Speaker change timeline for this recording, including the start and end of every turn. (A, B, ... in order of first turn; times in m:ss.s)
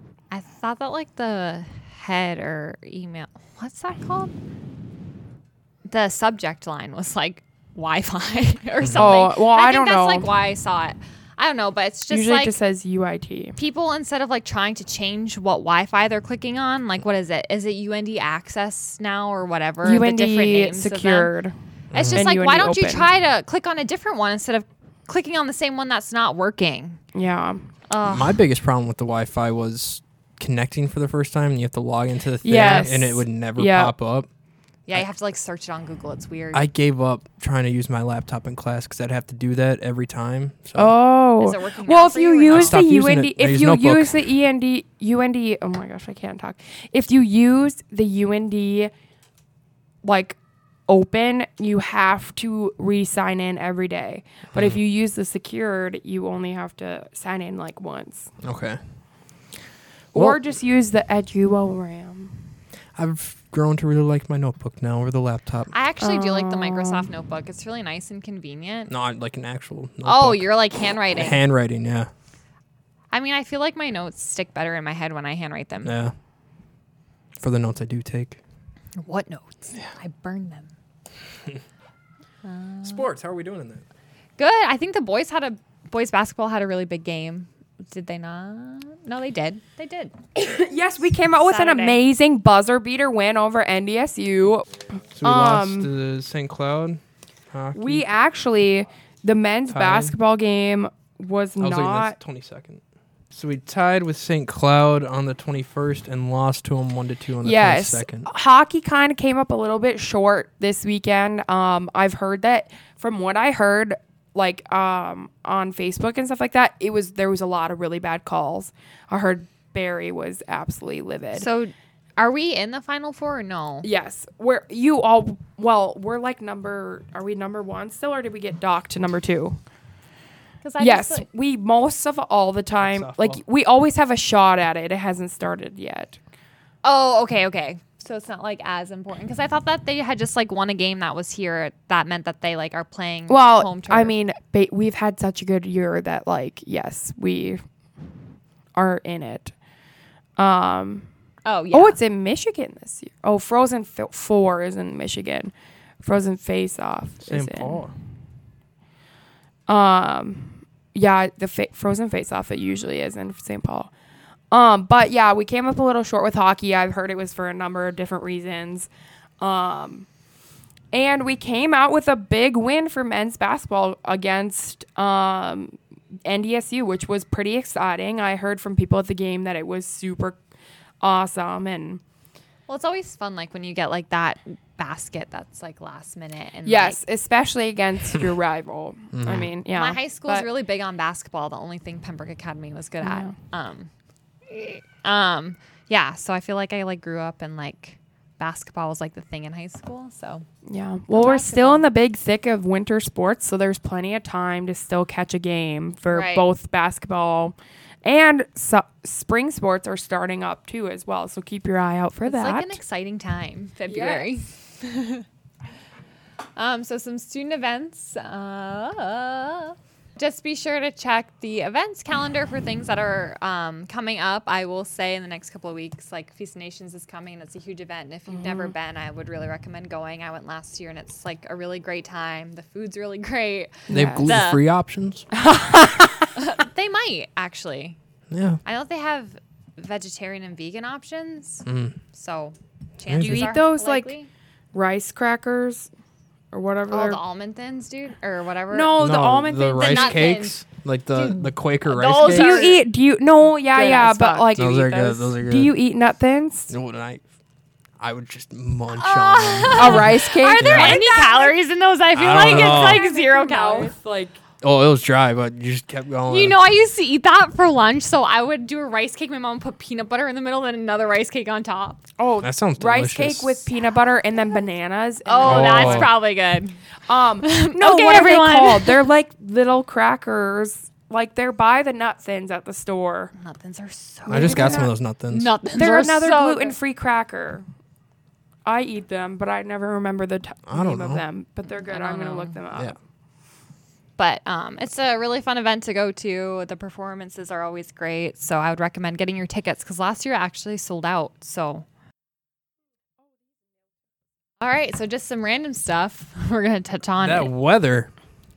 0:00.3-0:04.3 A
0:05.9-0:12.5 A
0:08.8-0:09.1 B
0:09.0-0:10.3 C
0:12.1-0:13.6 C
0:13.6-0:21.3 A
0:19.8-0:21.5 C
0:21.9-0:22.2 B
0:21.9-0:27.0 A
0:22.1-0:23.1 C
0:27.1-0:27.6 C
0:27.9-0:28.4 A
0:28.0-0:34.3 B
0:32.4-0:33.9 C
0:32.5-0:32.9 A
0:34.9-0:36.7 A
0:36.5-0:41.0 B
0:40.8-0:48.9 C
0:41.4-0:42.8 A
0:42.5-0:44.2 B
0:50.0-0:58.3 C
0:54.5-0:54.8 B
0:58.4-0:58.8 B
1:00.1-1:02.4 C
1:03.0-1:05.7 B
1:05.7-1:08.9 A
1:06.0-1:07.1 C
1:08.9-1:10.5 B
1:10.0-1:11.4 A
1:11.1-1:12.1 B
1:13.1-1:15.9 A
1:15.8-1:16.1 B
1:17.4-1:18.4 B
1:19.0-1:20.7 A
1:22.4-1:23.0 A
1:22.8-1:23.8 B
1:24.4-1:30.1 A
1:30.3-1:35.9 C
1:31.4-1:32.0 A
1:35.2-1:38.0 B
1:37.7-1:42.2 C
1:39.7-1:40.1 B
1:41.6-1:42.8 B
1:43.3-1:48.3 B
1:47.4-2:01.4 C
2:01.3-2:03.9 A
2:03.8-2:09.6 C
2:10.6-2:11.2 A
2:10.8-2:16.2 C
2:12.8-2:13.4 B
2:16.8-2:24.1 A
2:23.3-2:27.6 C
2:28.7-2:29.5 C
2:30.4-2:31.1 C
2:31.4-2:32.0 A
2:31.7-2:35.5 C
2:36.0-2:37.8 C
2:37.2-2:37.9 B
2:39.7-2:43.9 C
2:44.5-2:48.9 C
2:49.4-2:50.0 C
2:50.9-3:00.4 C
3:01.0-3:02.0 C
3:02.7-3:07.0 A
3:06.6-3:10.5 C
3:09.1-3:09.5 B
3:09.7-3:13.9 A
3:13.0-3:13.3 C
3:14.5-3:20.4 A
3:20.6-3:32.8 C
3:21.1-3:21.8 A
3:26.1-3:26.4 A
3:32.2-3:35.2 A
3:33.9-3:34.3 C
3:36.6-3:54.6 A
3:48.3-3:48.7 C
3:53.9-3:54.4 C
3:53.9-3:55.2 B
3:55.3-3:56.3 C
3:56.3-3:58.0 A
3:58.3-3:58.6 B
3:58.6-4:04.3 A
4:01.6-4:02.0 B
4:03.1-4:03.5 B
4:03.2-4:04.1 C
4:04.7-4:05.9 C
4:06.5-4:07.2 C
4:06.9-4:09.0 A
4:08.7-4:10.4 C
4:09.0-4:12.6 B
4:09.8-4:10.6 A
4:11.1-4:12.8 A
4:12.2-4:16.7 C
4:13.7-4:14.5 A
4:14.6-4:15.7 B
4:16.7-4:17.2 B
4:18.0-4:21.0 B
4:18.9-4:23.9 A
4:19.7-4:21.5 C
4:22.1-4:23.0 B
4:22.3-4:24.4 C
4:24.6-4:26.6 B
4:26.3-4:32.0 A
4:32.2-4:36.1 C
4:32.4-4:33.6 B
4:35.2-4:36.8 A
4:35.4-4:36.1 B
4:37.1-4:43.3 C
4:37.4-4:39.0 A
4:43.4-4:46.8 A
4:44.3-4:44.9 C
4:44.3-4:45.5 B
4:45.7-4:47.6 C
4:48.6-4:53.0 C
4:50.7-4:51.2 B
4:51.8-4:52.6 A
4:54.2-5:01.8 A
5:04.6-5:07.5 A
5:07.2-5:08.1 B